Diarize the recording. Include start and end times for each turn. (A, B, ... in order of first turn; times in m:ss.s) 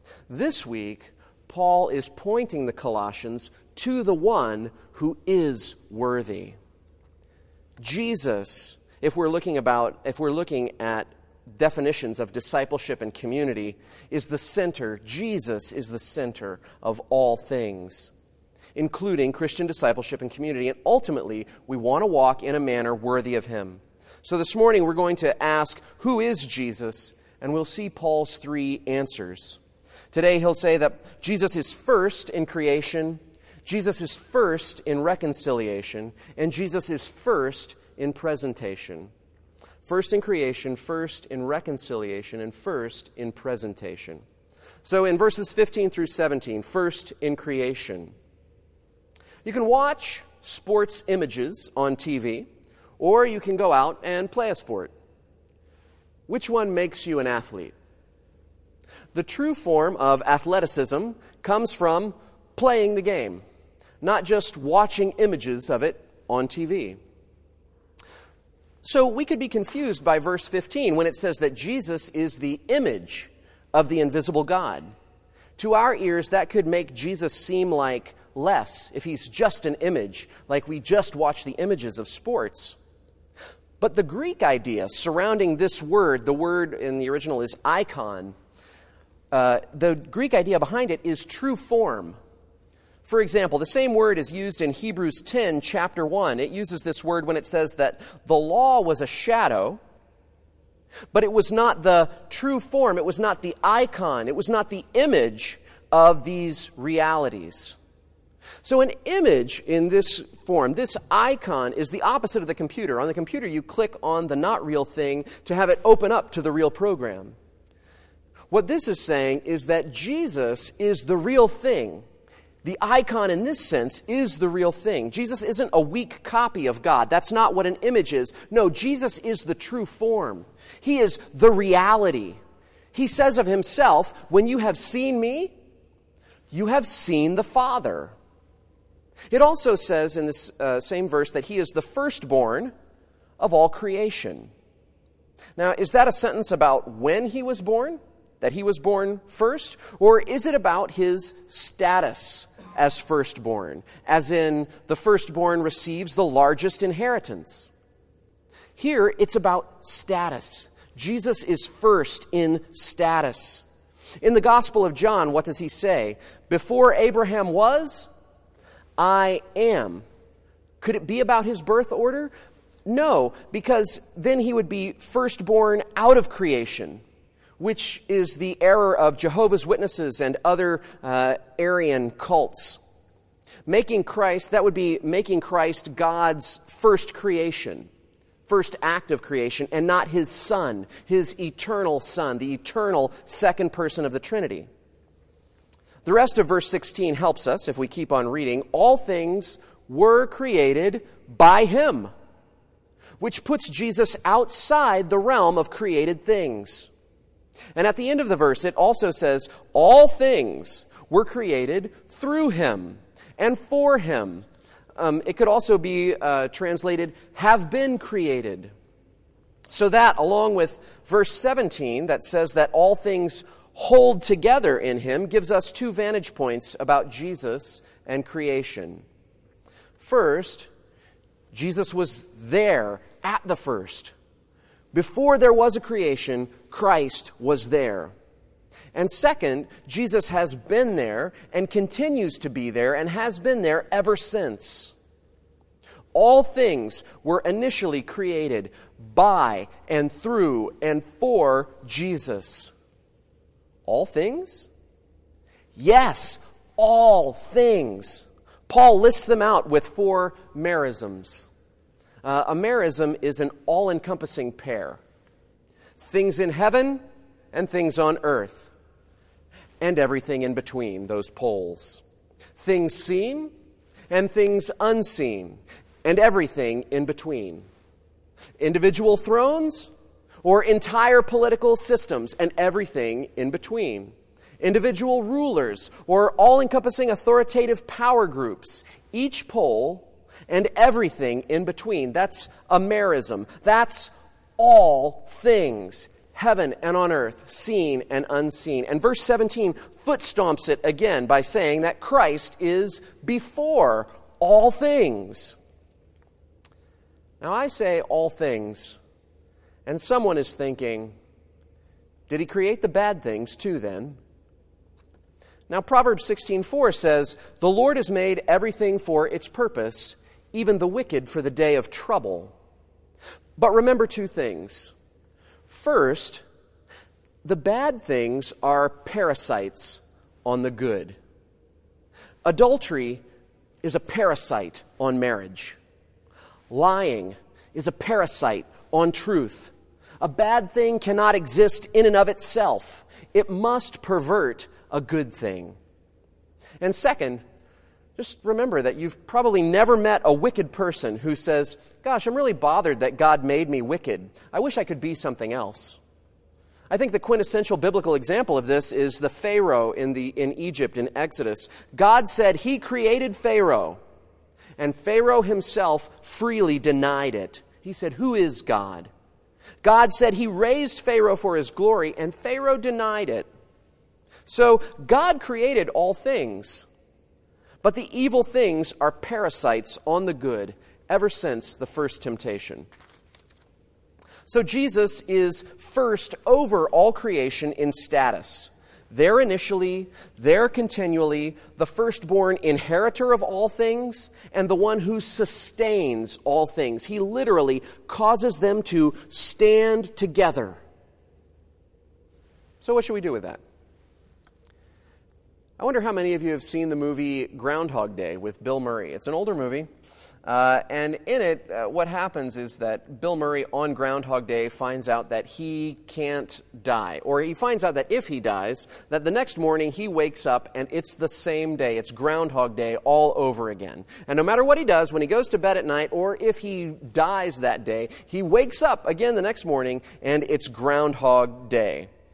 0:00.3-0:06.6 A
0:07.8-0:18.1 A
0:18.8-0:29.6 A
0:30.1-0:39.1 A
0:39.8-0:44.2 A
0:44.8-0:48.1 A
0:49.4-0:54.9 A
0:56.3-0:57.8 A
0:59.1-1:03.4 A
1:04.0-1:07.0 A
1:08.8-1:14.9 A
1:15.6-1:22.8 A
1:23.8-1:28.4 A
1:29.3-1:32.2 A
1:33.0-1:39.8 A
1:41.1-1:47.8 A
1:48.6-1:57.4 A
1:58.5-2:02.0 A
2:02.6-2:12.4 A
2:12.9-2:15.5 A
2:16.5-2:18.1 A
2:19.3-2:22.7 A
2:23.4-2:24.5 A
2:25.6-2:37.7 A
2:38.8-2:43.6 A
2:44.2-2:48.1 A
2:49.0-2:50.0 A
2:50.8-2:52.3 A
2:52.8-2:57.0 A
2:57.6-3:02.8 A
3:03.6-3:07.9 A
3:08.5-3:14.7 A
3:16.0-3:22.1 A
3:23.2-3:26.9 A
3:27.8-3:38.7 A
3:39.7-3:49.0 A
3:50.0-3:50.7 A
3:51.5-3:54.1 A
3:54.9-3:58.1 A
3:58.9-4:04.9 A
4:06.1-4:12.7 A
4:13.9-4:14.7 A
4:15.8-4:21.5 A
4:22.2-4:25.0 A
4:26.0-4:27.0 A
4:27.5-4:28.7 A
4:29.8-4:32.0 A
4:32.6-4:33.5 A
4:34.1-4:37.6 A
4:38.6-4:39.9 A
4:40.4-5:05.6 A
5:07.4-5:09.0 A
5:09.9-5:11.1 A
5:12.3-5:14.2 A
5:15.7-5:22.5 A
5:23.6-5:24.9 A
5:25.7-5:26.4 A
5:27.4-5:31.2 A
5:32.4-5:33.2 A
5:33.8-5:35.8 A
5:36.7-5:45.8 A
5:46.8-5:47.4 A
5:48.2-5:56.0 A
5:56.9-6:04.0 A
6:04.8-6:09.1 A
6:09.8-6:13.5 A
6:14.5-6:16.9 A
6:17.8-6:22.9 A
6:24.5-6:40.8 A
6:42.8-6:43.6 A
6:45.8-6:49.9 A
6:50.4-7:12.1 A